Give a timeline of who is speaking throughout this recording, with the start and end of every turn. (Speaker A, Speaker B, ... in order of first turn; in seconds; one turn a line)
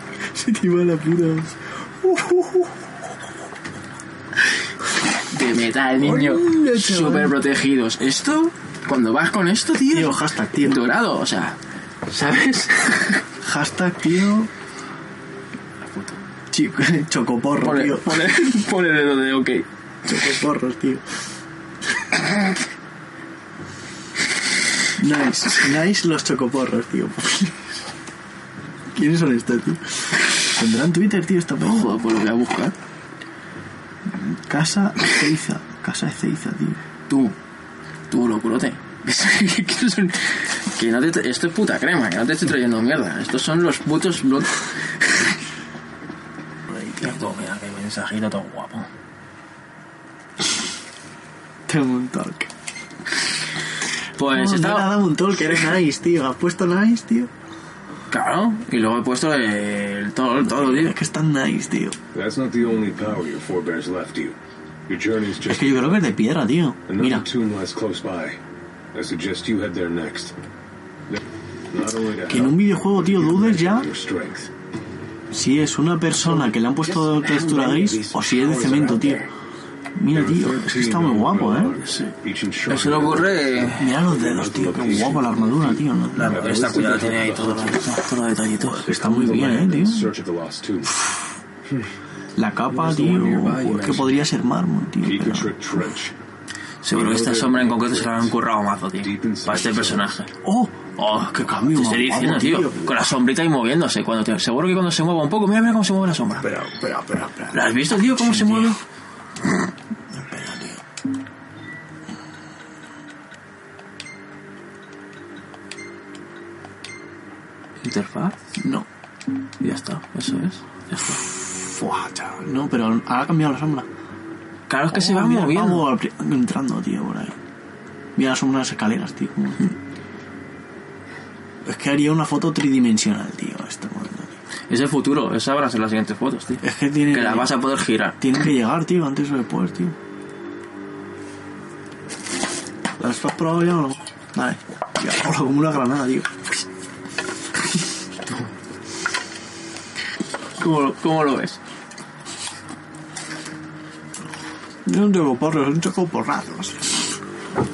Speaker A: 0.3-2.7
Speaker B: 5.3-11.6
Speaker A: 6.0-7.4
Speaker A: 9.9-10.8
Speaker B: 12.1-13.2
Speaker A: 13.4-14.5
Speaker B: 15.8-16.2
Speaker A: 16.5-18.4
Speaker B: 17.6-19.6
Speaker A: 20.0-21.0
Speaker A: 25.0-27.6
Speaker A: 28.9-32.0
Speaker B: 31.6-32.7
Speaker A: 34.2-36.8
Speaker B: 37.1-37.3
Speaker B: 38.1-45.4
Speaker B: 47.0-48.9
Speaker A: 51.7-52.5
Speaker B: 54.2-55.0
Speaker A: 54.2-57.3
Speaker B: 58.1-61.0
Speaker A: 60.4-62.0
Speaker C: 62.1-64.3
Speaker C: 64.9-66.1
Speaker A: 65.4-67.3
Speaker C: 66.9-68.4
Speaker C: 68.9-70.3
Speaker C: 71.1-74.5
Speaker A: 72.3-73.9
Speaker A: 75.3-79.3
Speaker C: 76.2-79.3
Speaker A: 79.9-82.1
Speaker C: 80.1-87.9
Speaker B: 82.7-83.9
Speaker A: 83.8-87.5
Speaker B: 86.1-89.7
Speaker C: 88.6-91.0
Speaker A: 88.8-90.1
Speaker A: 92.4-95.5
Speaker B: 92.7-94.1
Speaker C: 92.9-94.1
Speaker C: 95.0-96.1
Speaker B: 96.8-100.3
Speaker C: 96.9-98.3
Speaker C: 99.0-100.1
Speaker A: 100.4-103.0
Speaker B: 101.0-106.5
Speaker A: 106.4-108.8
Speaker B: 107.5-108.8
Speaker A: 110.1-110.8
Speaker B: 117.8-118.4
Speaker A: 118.6-118.8
Speaker B: 119.6-120.9
Speaker A: 120.9-123.8
Speaker B: 124.7-125.9
Speaker A: 124.9-127.3
Speaker A: 128.2-129.7
Speaker A: 131.7-134.3
Speaker B: 134.7-138.2
Speaker A: 136.6-137.5
Speaker A: 138.2-139.9
Speaker A: 143.0-146.6
Speaker B: 150.6-151.6
Speaker A: 154.8-157.0